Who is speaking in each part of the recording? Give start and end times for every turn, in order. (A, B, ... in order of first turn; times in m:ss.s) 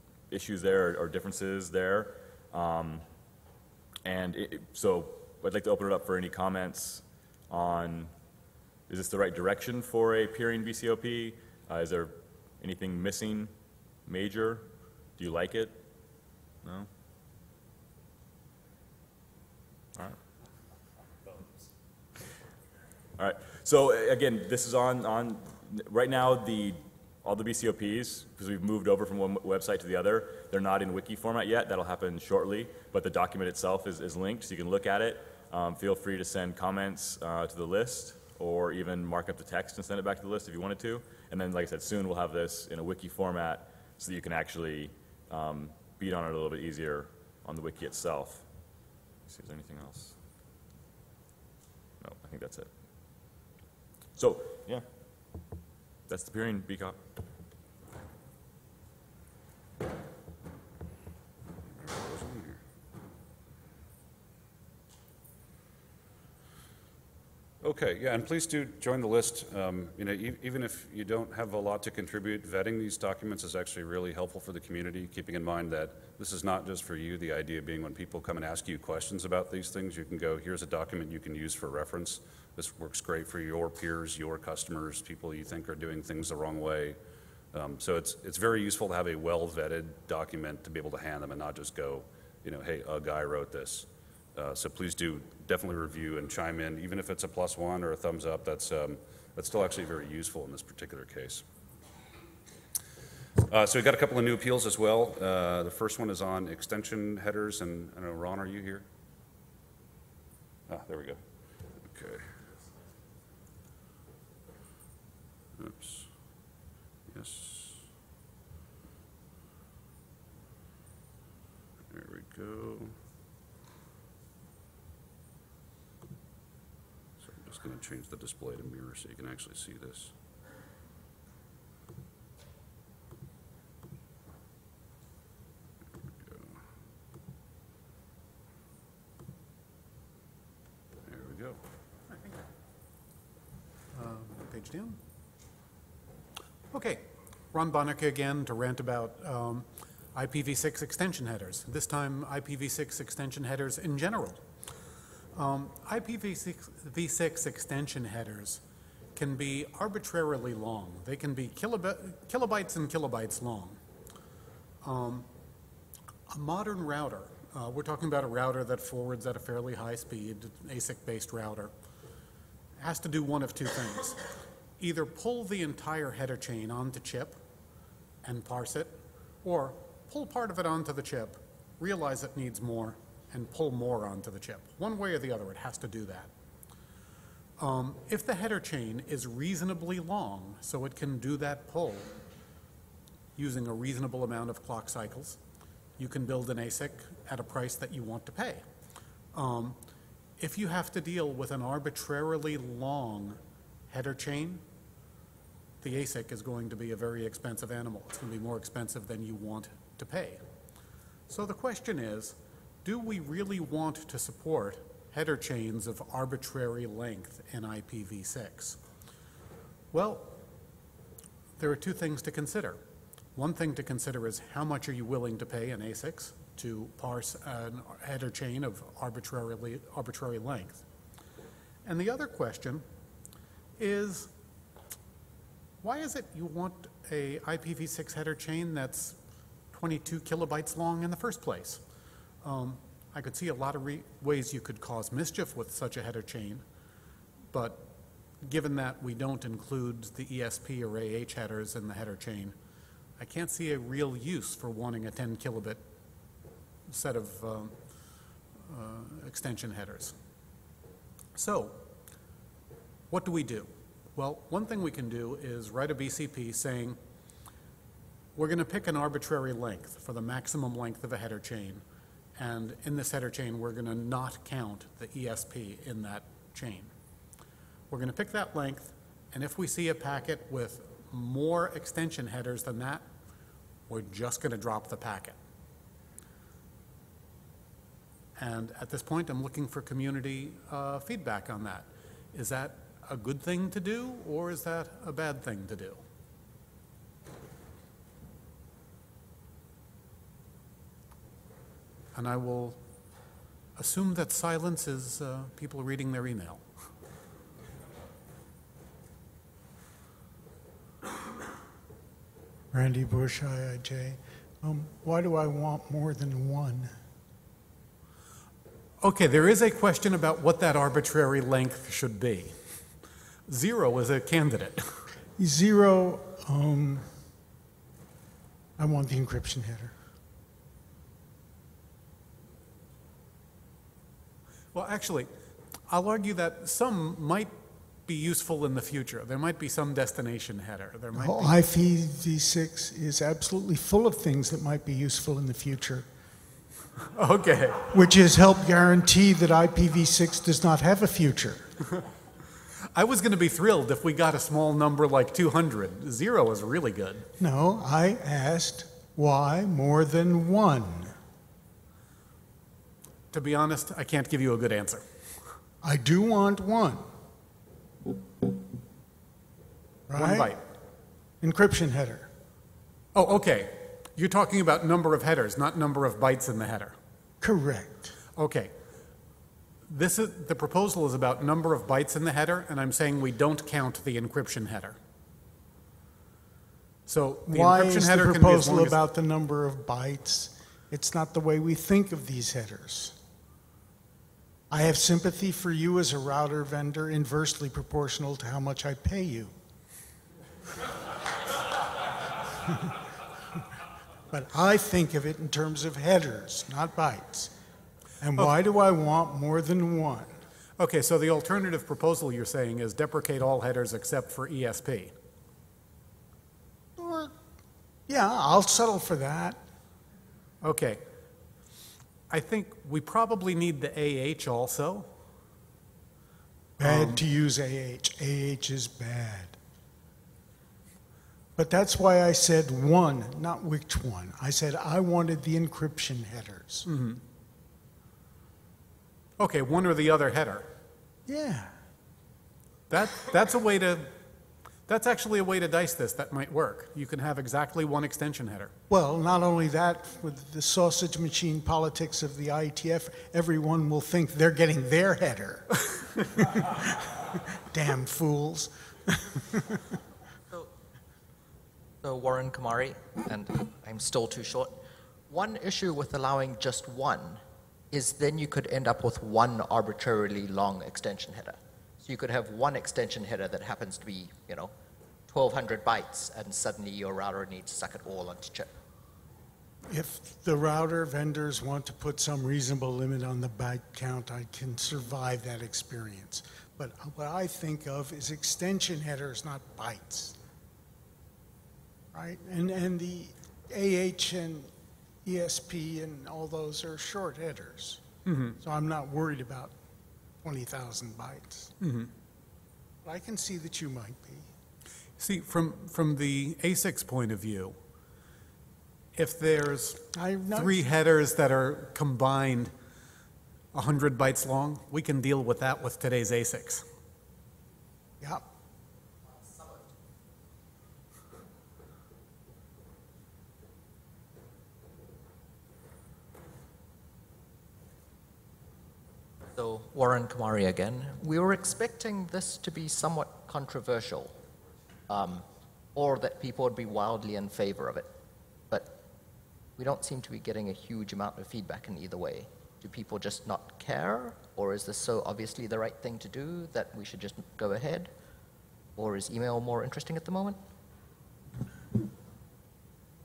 0:00.3-0:03.0 A
0:04.0-0:08.1 A
0:08.9-0:13.5 A
0:14.1-0:14.7 A
0:15.2-0:15.8 A
0:23.2-0:48.4 A
0:49.3-0:50.2 A
0:52.0-0:52.7 A
0:54.2-0:54.8 A
0:56.1-0:57.0 A
1:01.7-1:02.6 B
1:07.6-1:27.0 B
1:27.5-1:41.4 B
1:43.4-1:48.8 B
1:50.7-1:51.2 B
1:51.8-1:52.3 B
1:55.6-1:56.1 B
1:57.1-1:57.8 B
2:01.9-2:03.0 B
2:07.2-2:10.1 B
2:16.2-2:16.6 B
2:21.1-2:21.6 B
2:23.9-2:25.0 C
2:26.7-2:34.4 C
2:35.3-2:38.6 C
2:39.2-2:43.8 C
2:44.8-2:45.3 C
2:46.3-2:51.7 C
2:52.8-2:54.2 C
2:54.8-2:57.4 C
2:58.2-3:06.3 C
3:07.6-3:12.1 C
3:13.4-3:15.4 C
3:16.0-3:18.6 C
3:19.3-3:19.8 C
3:20.4-3:24.6 C
3:25.8-3:30.4 C
3:31.3-3:38.8 C
3:39.9-3:40.4 C
3:41.6-3:42.8 C
3:43.4-3:50.8 C
3:51.8-3:52.9 C
3:53.8-3:54.3 C
3:55.8-3:59.2 C
3:59.7-4:01.8 C
4:02.4-4:06.6 C
4:07.5-4:07.9 C
4:08.4-4:12.6 C
4:13.2-4:15.8 C
4:16.9-4:17.8 C
4:18.6-4:20.2 C
4:21.4-4:21.8 C
4:23.1-4:27.0 C
4:28.4-4:31.8 C
4:32.4-4:36.9 C
4:37.9-4:43.1 C
4:43.9-4:45.4 C
4:48.4-4:56.0 C
5:02.1-5:02.8 C
5:03.8-5:06.7 C
5:12.7-5:16.9 D
5:19.0-5:22.7 C
5:23.5-5:25.0 C
5:25.4-5:27.1 D
5:28.8-5:29.9 D
5:34.7-5:35.3 C
5:35.9-5:41.6 C
5:41.2-5:46.1 D
5:47.1-5:47.9 C
5:47.9-5:51.7 D
5:52.9-5:57.3 C
5:57.4-6:01.2 D
6:03.3-6:05.5 C
6:05.8-6:07.0 D
6:10.1-6:10.6 D
6:10.2-6:10.6 C
6:11.4-6:12.3 D
6:13.2-6:17.0 C
6:17.4-6:18.1 D
6:18.4-6:18.7 C
6:19.9-6:25.0 C
6:27.1-6:29.0 C
6:27.5-6:33.2 D
6:34.7-6:39.5 D
6:42.7-6:43.0 D
6:44.3-6:47.5 D
6:48.2-6:50.4 D
6:50.8-6:55.2 C
6:57.0-6:57.4 D
6:58.1-6:59.6 D
7:00.6-7:01.0 C
7:02.3-7:05.1 C
7:06.8-7:09.6 D
7:06.8-7:07.2 C
7:11.6-7:16.9 D
7:16.9-7:17.2 C
7:19.4-7:20.7 C
7:21.3-7:21.8 D
7:22.9-7:24.2 C
7:24.9-7:28.7 C
7:28.9-7:40.0 D
7:42.0-7:44.8 E
7:45.3-7:54.7 E
7:55.3-7:58.7 E
7:59.9-8:10.4 D
8:12.1-8:14.7 D
8:15.2-8:18.0 D
8:18.2-8:18.6 C
8:18.6-8:19.7 D
8:20.4-8:21.7 D
8:21.8-8:22.1 C
8:23.0-8:24.5 D
8:25.2-8:27.8 C
8:29.2-8:32.7 C
8:30.1-8:30.8 D
8:33.7-8:36.9 C
8:39.4-8:39.8 E
8:49.6-8:54.4 E
8:55.1-8:58.1 E
8:58.7-8:59.0 E
8:59.8-9:08.1 E
9:09.0-9:10.6 E